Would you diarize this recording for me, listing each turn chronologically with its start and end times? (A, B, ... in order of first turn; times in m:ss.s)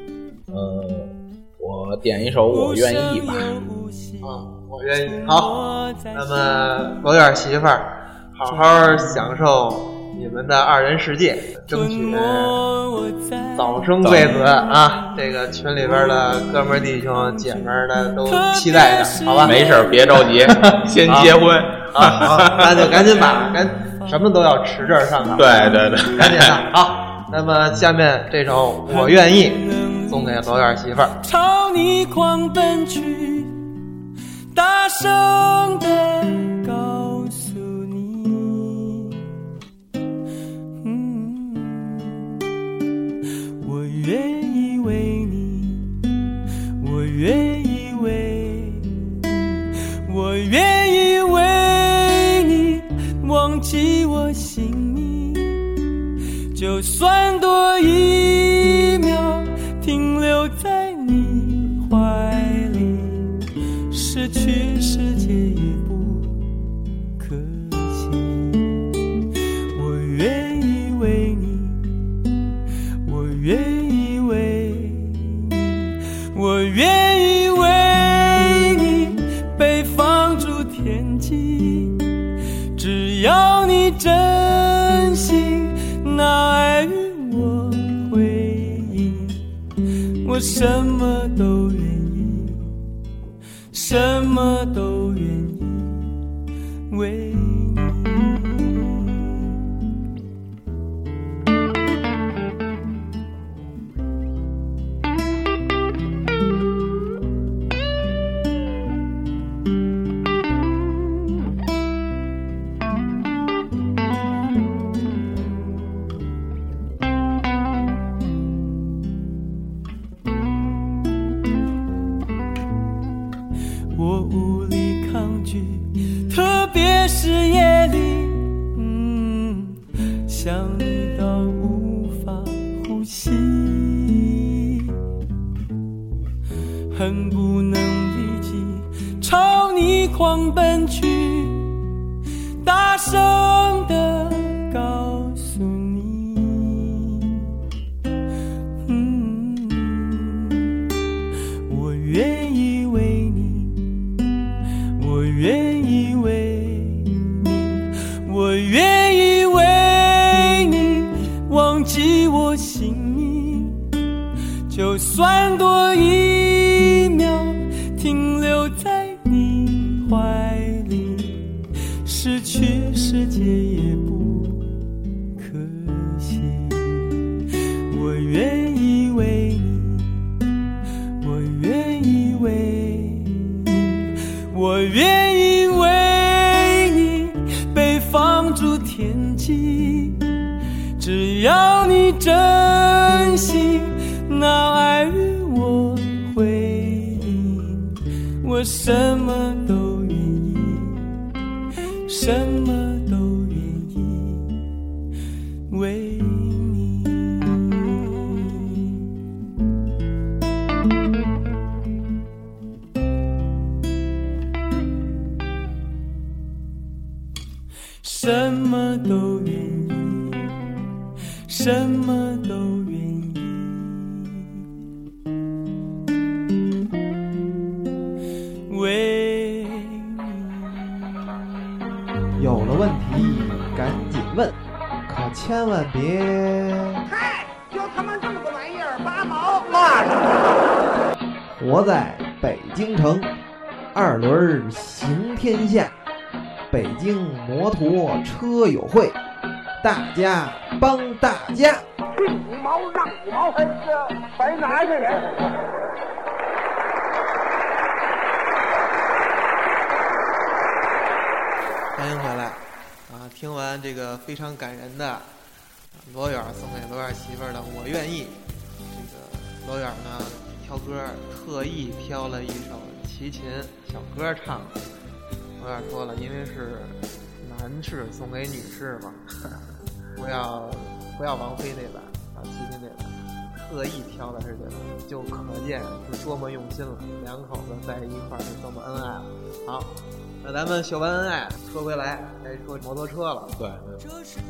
0:00.5-0:03.6 A
0:02.5-0:04.3 B
0:04.2-0:12.6 C
0:05.2-0:06.5 B
0:11.7-0:13.8 B
0:13.6-0:19.6 C
0:14.0-0:14.4 A
0:14.5-0:15.2 B
0:15.8-0:20.4 B
0:19.4-0:23.4 A
0:20.1-0:21.4 C
0:21.9-0:31.2 C
0:25.3-0:26.6 A
0:28.9-0:30.5 B
0:31.2-0:33.6 B
0:34.5-0:39.3 B
0:40.8-0:42.3 B
0:43.6-0:46.0 B
0:46.8-0:55.8 B
0:56.5-1:03.4 B
1:03.9-1:06.4 B
1:07.2-1:08.9 B
1:09.7-1:11.9 B
1:13.0-1:29.4 B
1:30.2-1:32.8 B
1:33.7-1:36.2 B
1:36.9-1:39.6 B
2:03.9-2:15.0 B
2:16.9-2:21.8 B
2:22.6-2:27.6 B
2:28.8-2:30.8 B
2:31.6-2:33.9 B
2:34.9-2:43.9 B
2:44.7-2:54.7 B
2:55.4-3:00.2 B
3:01.2-3:10.3 B
3:11.0-3:21.1 B
3:22.0-3:24.6 B
3:25.7-3:29.1 B
3:38.0-3:40.6 B
3:41.4-3:44.6 B
3:48.7-3:51.2 B
3:52.4-3:54.5 D
3:55.1-3:57.0 D
3:57.0-4:00.8 E
4:01.5-4:03.3 D
4:03.9-4:05.9 D
4:06.7-4:09.2 D
4:09.8-4:11.8 D
4:12.1-4:15.6 E
4:21.9-4:25.3 C
4:25.9-4:34.8 C
4:35.6-4:39.2 C
4:40.1-4:53.6 C
4:53.6-4:54.0 A